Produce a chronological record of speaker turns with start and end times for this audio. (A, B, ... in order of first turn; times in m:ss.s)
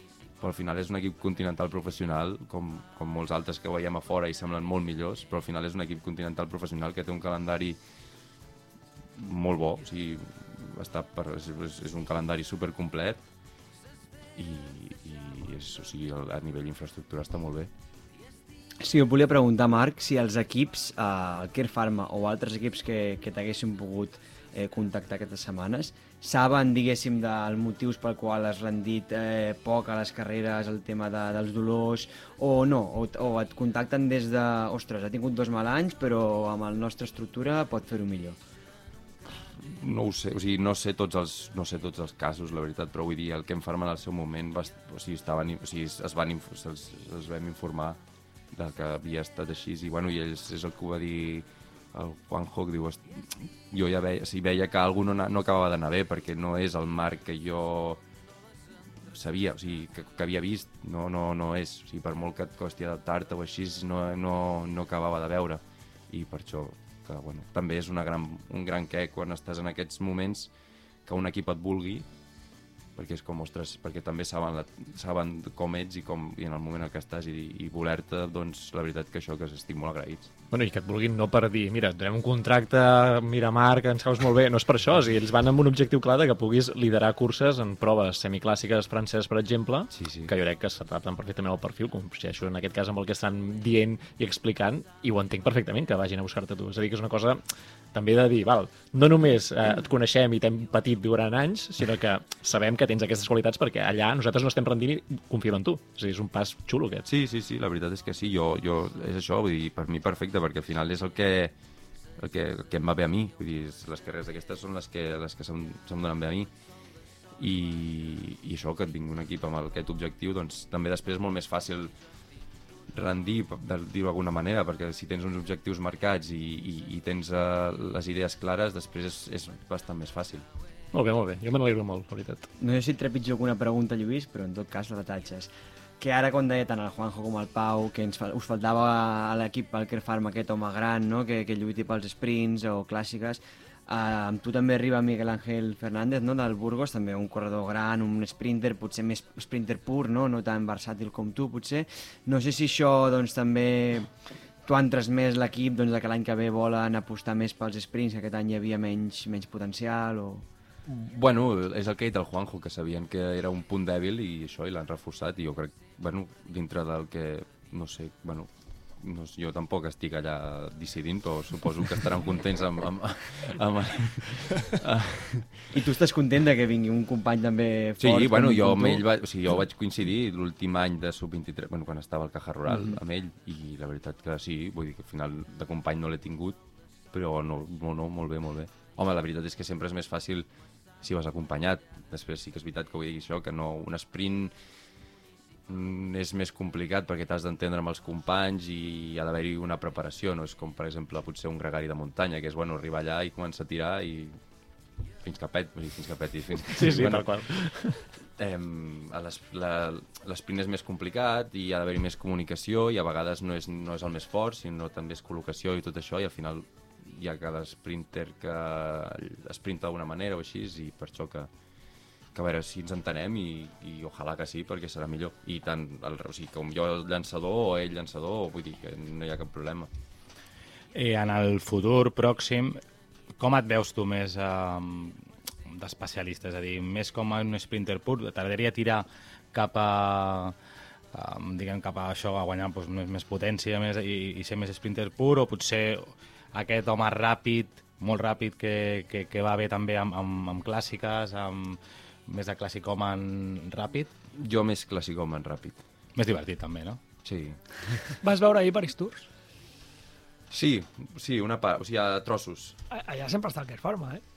0:00.4-0:07.8 A
0:09.2-0:13.2 A
0:14.4-0:17.7 A
0:18.8-0:38.4 B
0:39.6-0:48.0 A
0:48.5-0:58.0 A
0:59.1-1:10.5 A
1:11.0-1:12.0 A
1:13.0-1:20.3 A
1:20.5-1:37.4 C
1:29.9-1:30.3 A
1:37.9-1:47.0 C
1:47.1-1:51.5 A
1:52.2-1:56.5 A
1:57.4-2:01.9 A
2:02.9-2:10.4 A
2:10.9-2:12.5 C
2:12.6-2:34.1 B
2:34.6-2:40.4 B
2:40.9-2:55.7 A
2:55.7-2:59.0 B
2:58.0-3:06.6 A
3:02.7-3:03.0 B
3:07.1-3:10.4 A
3:11.0-3:14.5 A
3:15.7-3:24.4 A
3:25.2-3:27.7 A
3:26.7-3:28.0 C
3:28.4-3:41.5 A
3:42.3-3:49.9 A
3:50.9-3:52.8 D
3:53.4-4:00.5 D
4:01.1-4:14.1 D
4:14.4-4:15.8 A
4:16.1-4:17.0 D
4:17.2-4:18.1 A
4:18.2-4:19.3 E
4:20.5-4:22.8 A
4:22.9-4:24.2 E